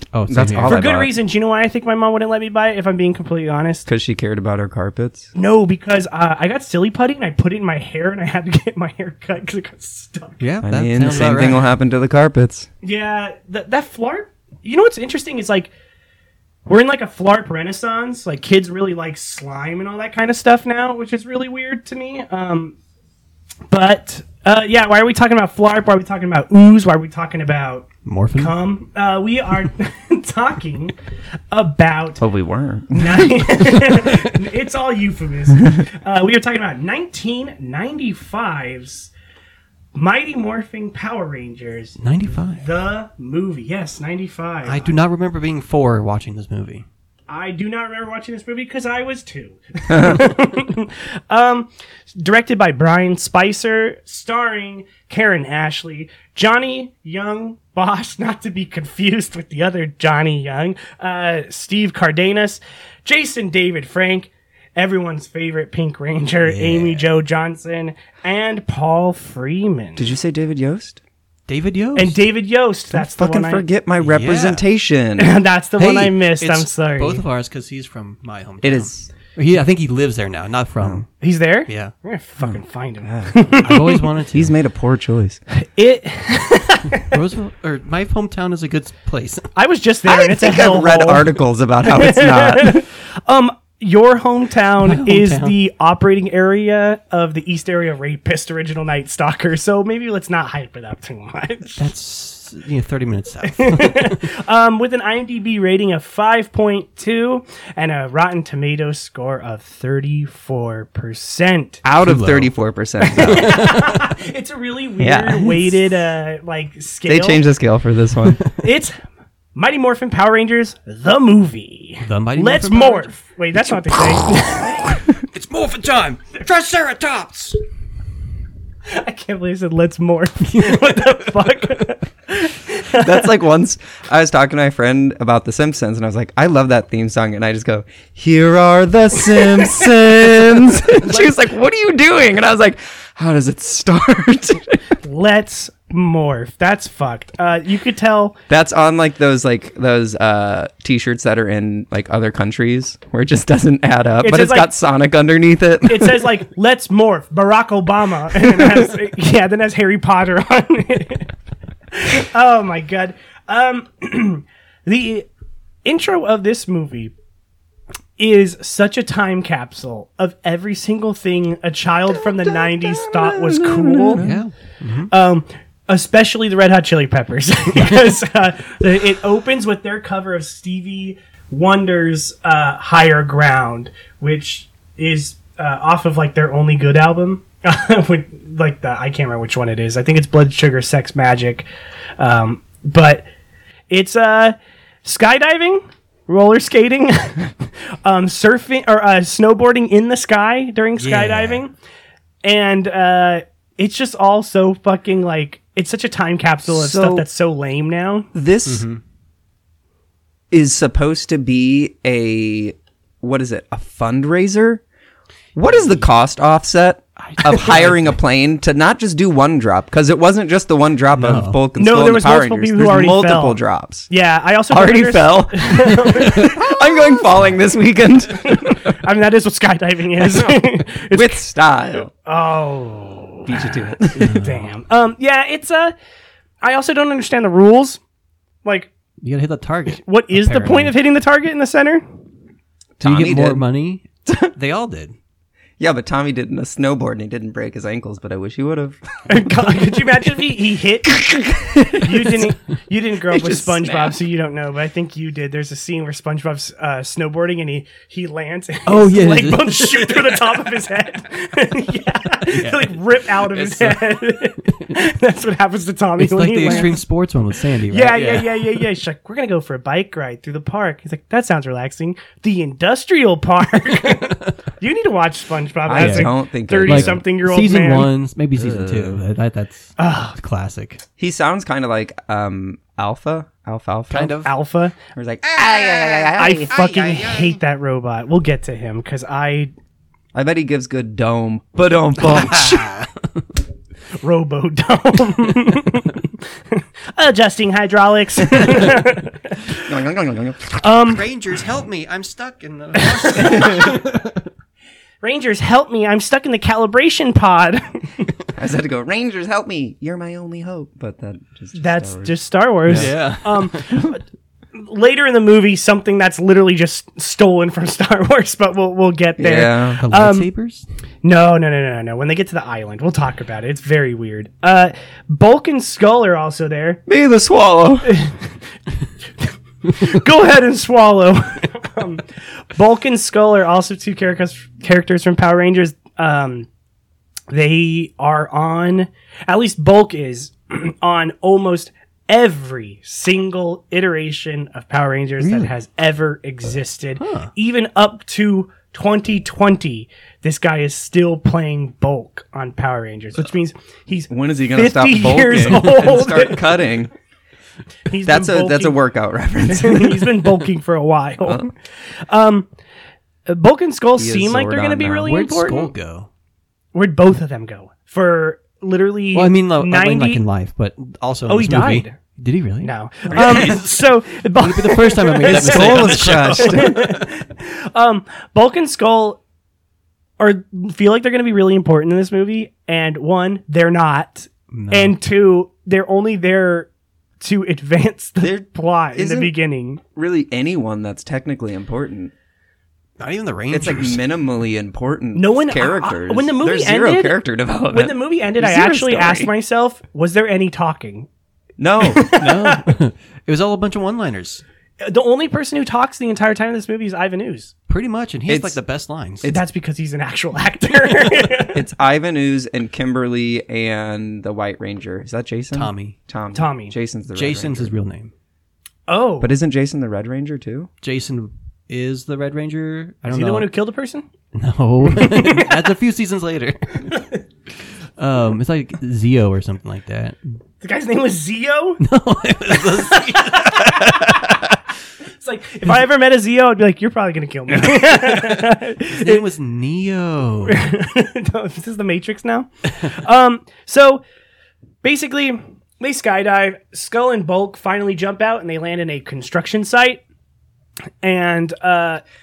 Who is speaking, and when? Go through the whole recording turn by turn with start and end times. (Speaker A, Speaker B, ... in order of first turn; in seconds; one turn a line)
Speaker A: 0.1-0.8
Speaker B: 0.3-1.1
Speaker C: 0.6-3.9
Speaker B: 3.9-5.3
Speaker C: 5.3-10.4
Speaker A: 10.4-11.7
Speaker B: 10.6-12.7
Speaker C: 11.1-11.5
Speaker C: 12.8-15.7
Speaker C: 16.7-22.8
Speaker C: 23.7-30.9
Speaker A: 28.1-28.5
Speaker C: 31.5-32.2
Speaker B: 32.2-33.7
Speaker C: 32.9-39.1
Speaker C: 40.0-45.0
Speaker A: 42.0-42.6
Speaker A: 44.6-46.9
Speaker C: 47.3-70.1
Speaker B: 49.9-50.2
Speaker A: 66.5-67.1
Speaker B: 70.0-71.0
Speaker A: 71.5-72.2
Speaker C: 72.0-73.6
Speaker B: 72.9-76.1
Speaker A: 74.0-74.7
Speaker C: 75.2-77.2
Speaker A: 76.4-81.1
Speaker B: 78.6-79.1
Speaker C: 81.2-84.0
Speaker A: 81.7-81.9
Speaker B: 82.4-83.3
Speaker A: 83.6-84.5
Speaker B: 84.3-85.4
Speaker C: 85.6-87.2
Speaker A: 87.0-89.5
Speaker C: 89.5-91.3
Speaker B: 90.0-92.8
Speaker C: 91.8-101.9
Speaker A: 94.8-95.6
Speaker A: 101.8-104.2
Speaker C: 103.5-111.8
Speaker B: 111.8-113.6
Speaker A: 112.0-112.5
Speaker C: 113.1-117.4
Speaker A: 113.2-114.0
Speaker B: 115.0-115.7
Speaker B: 117.1-118.4
Speaker C: 118.6-119.0
Speaker C: 119.5-125.0
Speaker A: 122.0-123.1
Speaker A: 125.2-127.6
Speaker C: 128.9-133.3
Speaker A: 130.5-131.7
Speaker B: 132.9-144.8
Speaker C: 139.3-141.3
Speaker C: 145.0-148.4
Speaker B: 148.5-156.4
Speaker C: 154.2-154.7
Speaker C: 155.9-161.3
Speaker C: 161.9-165.3
Speaker C: 165.8-167.1
Speaker C: 168.2-174.2
Speaker B: 172.2-174.4
Speaker A: 174.2-175.1
Speaker C: 175.1-191.7
Speaker C: 192.2-193.3
Speaker C: 193.9-201.7
Speaker A: 201.0-201.6
Speaker C: 202.4-208.3
Speaker B: 206.7-207.3
Speaker B: 208.3-208.9
Speaker A: 208.7-209.0
Speaker B: 210.5-214.8
Speaker B: 215.6-224.1
Speaker A: 217.2-218.2
Speaker A: 221.1-221.6
Speaker C: 221.8-223.6
Speaker C: 224.1-227.2
Speaker B: 224.7-229.0
Speaker C: 228.5-231.5
Speaker B: 230.2-232.1
Speaker C: 232.1-235.9
Speaker B: 233.5-234.3
Speaker A: 234.2-234.7
Speaker C: 236.6-238.0
Speaker C: 238.6-238.9
Speaker A: 239.2-241.0
Speaker C: 239.9-242.1
Speaker B: 243.0-243.6
Speaker A: 243.0-245.1
Speaker B: 244.3-244.5
Speaker B: 245.8-249.0
Speaker C: 249.3-251.2
Speaker B: 251.1-252.4
Speaker C: 251.9-267.0
Speaker B: 253.3-254.2
Speaker A: 258.9-260.8
Speaker A: 262.5-264.9
Speaker A: 266.2-268.9
Speaker C: 267.9-278.1
Speaker A: 273.9-274.5
Speaker B: 275.9-277.2
Speaker A: 275.9-276.3
Speaker A: 276.9-281.0
Speaker B: 278.6-279.2
Speaker C: 280.0-280.4
Speaker B: 281.2-284.4
Speaker A: 284.1-284.5
Speaker C: 284.4-285.0
Speaker B: 285.1-287.5
Speaker A: 285.6-286.3
Speaker C: 286.3-289.7
Speaker B: 290.3-292.9
Speaker A: 292.5-293.1
Speaker C: 294.2-296.2
Speaker C: 296.7-299.9
Speaker B: 298.5-298.8
Speaker B: 299.9-300.8
Speaker C: 300.8-301.2
Speaker A: 301.1-304.4
Speaker C: 303.0-304.0
Speaker C: 305.2-308.2
Speaker B: 308.6-313.1
Speaker C: 311.8-314.2
Speaker A: 312.9-314.1
Speaker C: 314.7-320.5
Speaker B: 319.4-320.0
Speaker A: 320.0-320.9
Speaker C: 321.2-327.0
Speaker B: 327.1-328.1
Speaker C: 328.1-328.5
Speaker C: 329.4-336.7
Speaker C: 337.5-356.7
Speaker A: 345.4-345.7
Speaker A: 347.2-347.5
Speaker B: 354.3-357.1
Speaker A: 355.5-356.0
Speaker C: 358.1-359.0
Speaker B: 358.3-360.5
Speaker C: 359.6-362.7
Speaker B: 361.4-361.7
Speaker C: 363.5-365.9
Speaker B: 364.2-365.3
Speaker A: 365.3-366.3
Speaker C: 366.9-370.4
Speaker A: 369.3-377.2
Speaker C: 371.5-372.2
Speaker C: 372.8-379.4
Speaker B: 375.4-377.0
Speaker C: 380.4-386.9
Speaker A: 384.7-385.2
Speaker C: 387.4-390.0
Speaker B: 388.4-389.6
Speaker B: 390.1-392.3
Speaker A: 393.2-394.2
Speaker B: 393.7-399.5
Speaker C: 395.4-397.4
Speaker C: 397.9-401.3
Speaker B: 401.8-402.5
Speaker C: 402.0-402.8
Speaker A: 402.4-404.6
Speaker C: 405.0-407.7
Speaker A: 407.9-409.5
Speaker B: 408.5-408.8
Speaker C: 409.5-411.8
Speaker B: 411.7-417.9
Speaker A: 415.7-416.2
Speaker C: 416.5-416.9
Speaker A: 417.3-418.3
Speaker C: 419.1-419.5
Speaker B: 419.4-420.9
Speaker A: 421.0-423.7
Speaker C: 423.3-424.3
Speaker A: 424.5-427.2
Speaker C: 425.1-425.7
Speaker C: 427.1-427.4
Speaker A: 428.2-430.6
Speaker C: 430.8-432.0
Speaker A: 432.0-434.7
Speaker C: 432.8-434.6
Speaker C: 435.4-439.4
Speaker A: 437.7-440.9
Speaker C: 440.7-444.2
Speaker C: 445.0-450.2
Speaker C: 451.2-452.2